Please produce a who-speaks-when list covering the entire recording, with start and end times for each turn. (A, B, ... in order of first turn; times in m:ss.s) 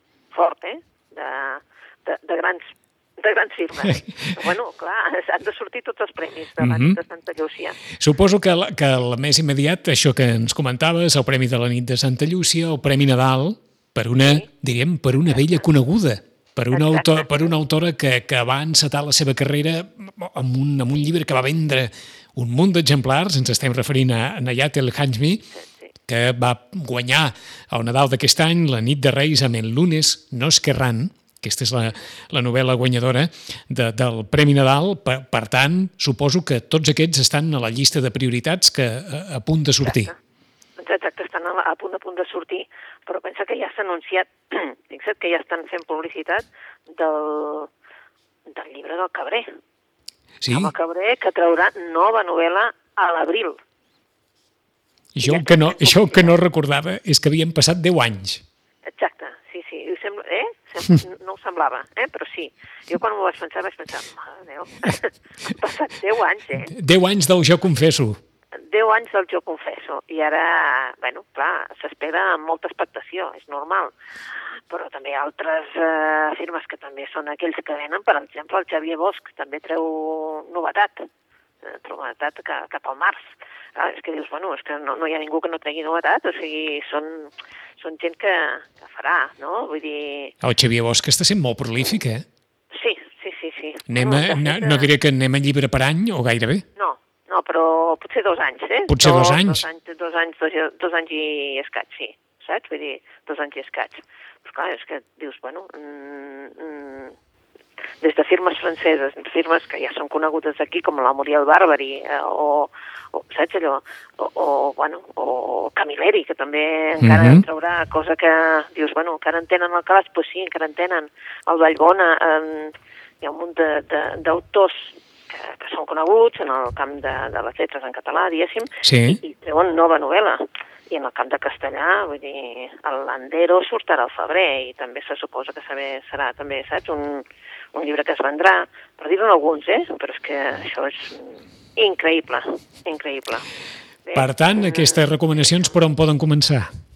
0:00.3-0:07.8 A
0:06.6-0:07.0 B
0:08.0-0:25.5 B
0:14.2-0:14.5 A
0:16.7-0:17.3 A
0:25.5-0:25.9 A
0:26.1-0:40.1 B
0:39.8-0:40.1 A
0:40.8-0:47.7 A
0:48.5-0:49.5 A
0:50.4-0:50.7 B
0:50.5-0:53.6 A
0:55.1-0:58.4 B
0:55.2-0:56.4 A
0:58.9-1:06.7 A
1:06.7-1:08.2 B
1:08.6-1:13.9 A
1:14.7-1:21.1 A
1:21.6-1:30.3 A
1:30.4-1:32.2 B
1:32.7-1:34.9 A
1:33.9-1:36.6 B
1:36.8-1:47.1 A
1:38.8-1:39.6 B
1:48.0-2:23.5 A
1:57.0-1:57.4 B
2:08.8-2:09.2 B
2:24.0-2:25.0 A
2:24.1-2:26.7 B